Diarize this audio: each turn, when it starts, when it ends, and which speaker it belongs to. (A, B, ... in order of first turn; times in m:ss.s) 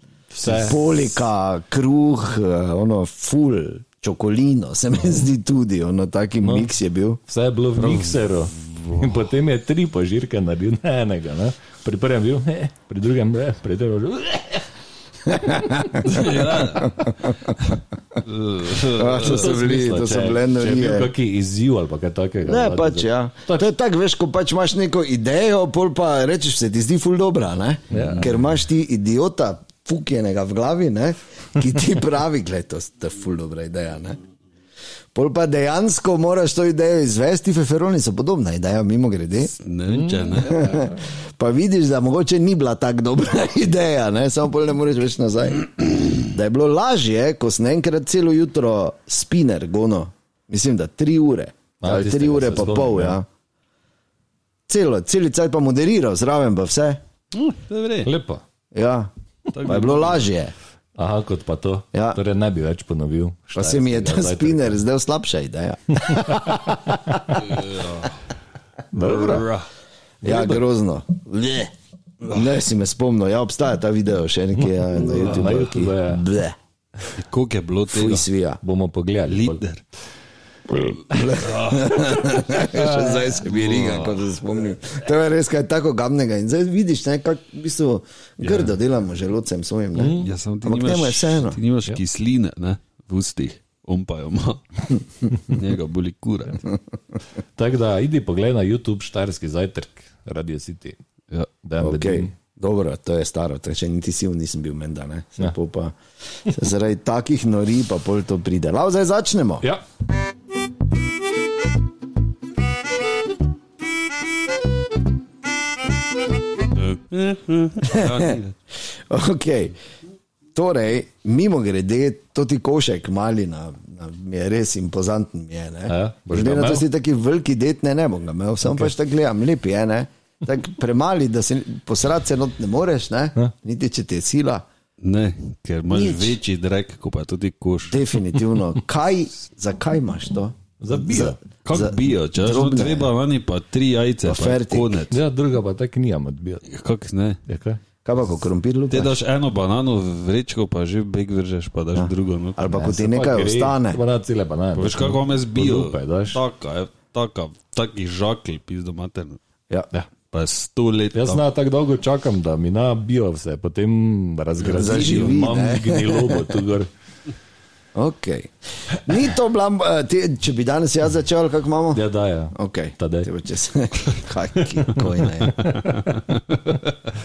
0:00.3-0:01.2 A
0:00.4-0:07.2 B
0:06.4-0:06.7 A
0:07.3-0:14.7 A
0:07.8-0:09.0 C
0:15.3-0:16.1 B
0:16.0-0:17.0 C
0:16.8-0:17.6 B
0:18.2-0:19.5 C
0:18.9-0:21.1 B
0:19.2-0:23.7 A
0:22.4-0:34.2 B
0:27.9-0:28.4 A
0:28.0-0:28.2 C
0:35.1-0:39.5 B
0:39.4-0:40.8 C
0:39.9-0:40.9 A
0:40.4-0:53.2 B
0:51.8-0:53.2 A
0:54.7-0:57.0 B
0:57.3-0:58.1 C
0:58.0-0:58.4 A
0:58.7-0:59.1 B
0:59.5-1:00.3 C
0:59.6-1:00.5 B
1:01.0-1:04.8 A
1:01.9-1:02.2 B
1:03.6-1:06.9 B
1:06.0-1:07.4 A
1:07.3-1:08.2 C
1:08.9-1:09.5 A
1:09.0-1:09.7 C
1:10.2-1:10.6 A
1:10.2-1:11.7 B
1:12.3-1:16.5 B
1:14.6-1:16.2 A
1:17.2-1:18.2 C
1:17.9-1:18.6 B
1:18.6-1:19.6 A
1:19.3-1:19.8 C
1:20.7-1:31.6 B
1:21.1-1:22.4 C
1:22.5-1:23.4 A
1:23.5-1:24.2 C
1:28.4-1:28.7 C
1:29.9-1:30.3 A
1:30.2-1:36.7 C
1:37.6-1:41.0 A
1:41.6-1:42.3 A
1:41.8-1:49.6 B
1:56.7-1:58.5 C
1:57.8-1:58.4 B
1:59.1-1:59.8 B
2:00.5-2:14.6 B
2:05.9-2:06.8 A
2:15.0-2:18.2 C
2:15.9-2:16.4 B
2:17.9-2:23.1 B
2:20.8-2:21.4 A
2:21.6-2:25.2 C
2:24.2-2:24.9 B
2:25.1-2:26.6 A
2:26.6-2:27.4 C
2:27.5-2:27.8 A
2:28.0-2:29.1 B
2:28.9-2:32.6 C
2:32.0-2:34.0 B
2:32.7-2:36.4 A
2:34.7-2:39.4 C
2:40.3-2:41.4 C
2:41.1-2:46.9 A
2:44.6-2:45.4 C
2:44.7-2:46.6 B
2:47.9-2:55.7 B
2:51.9-2:53.3 A
2:54.8-2:56.1 A
2:55.5-2:56.9 C